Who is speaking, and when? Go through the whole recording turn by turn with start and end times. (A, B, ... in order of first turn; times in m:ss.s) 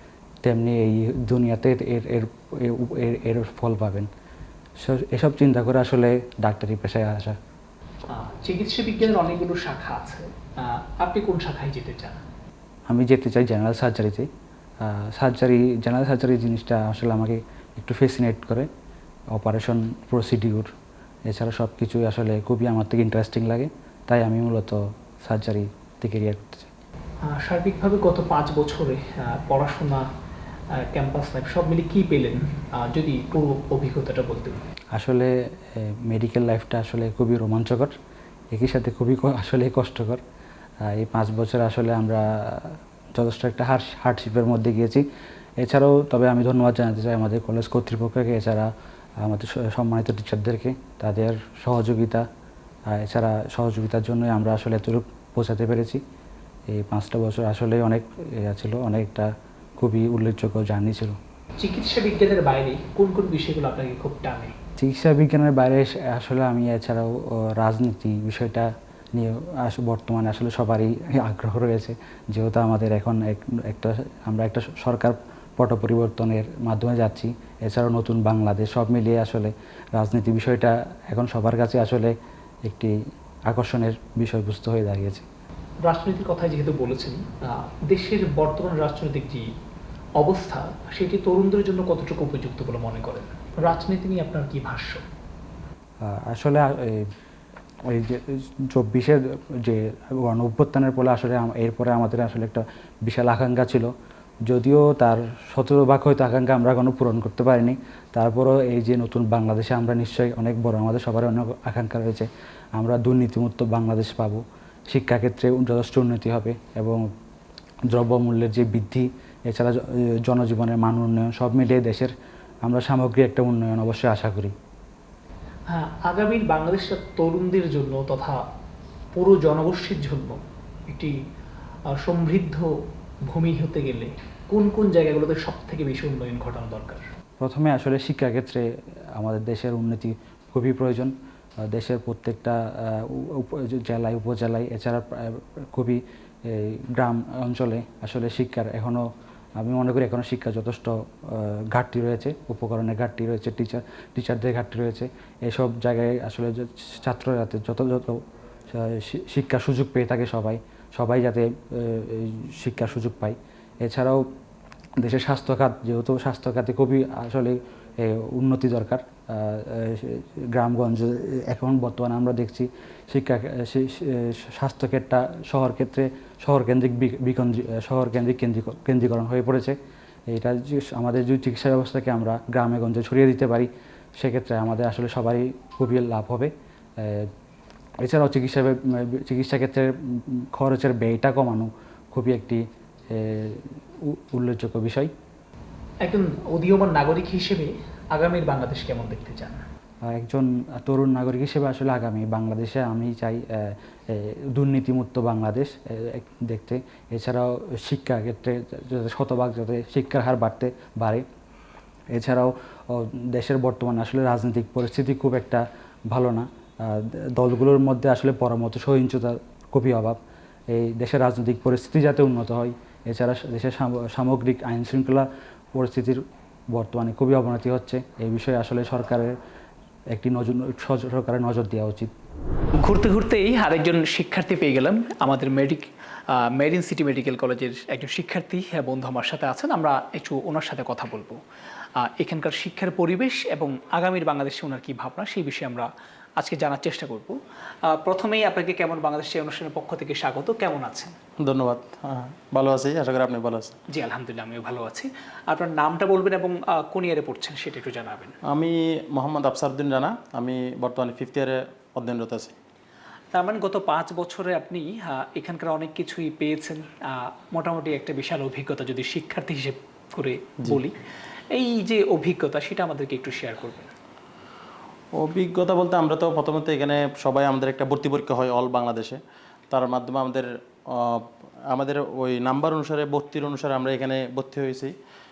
0:00.4-0:04.1 A
0:04.8-0:07.4 A
0:08.1-0:12.2 B
0:12.9-0:14.3 A
0:14.8-0:18.7 A
0:19.3-0:20.7 A
0:21.3-0:26.7 A
0:27.3-0:30.1 B
0:30.7-0:34.6 B
0:34.9-0:37.9 A
0:38.5-0:40.2 A
0:40.8-0:45.0 A
0:45.6-0:48.7 A
0:49.2-0:52.2 A
0:52.9-0:56.0 A
0:56.7-1:01.2 A
1:01.6-1:04.5 B
1:04.8-1:23.0 A
1:23.5-1:25.2 A
1:25.8-1:29.5 B
1:30.2-1:35.0 B
1:36.0-1:37.1 A
1:37.9-1:43.9 A
1:44.5-1:57.1 A
1:57.9-2:02.1 A
2:02.6-2:04.5 A
2:05.7-2:08.4 B
2:09.1-2:11.2 B
2:11.9-2:12.7 B
2:13.3-2:17.1 B
2:17.4-2:21.1 A
2:21.6-2:44.3 A
2:45.0-2:59.8 A
3:00.3-3:07.3 A
3:08.0-3:15.1 A
3:16.0-3:19.6 B
3:20.0-3:31.2 A
3:32.1-3:40.2 A
3:40.7-3:49.4 A
3:50.1-3:52.1 A
3:52.8-4:01.4 B
4:02.0-4:07.4 B
4:07.9-4:11.2 B
4:11.4-4:13.8 C
4:13.9-4:18.4 B
4:18.5-4:22.5 C
4:23.3-4:31.0 B
4:31.5-4:33.9 B
4:35.1-4:39.2 C
4:39.7-4:44.9 C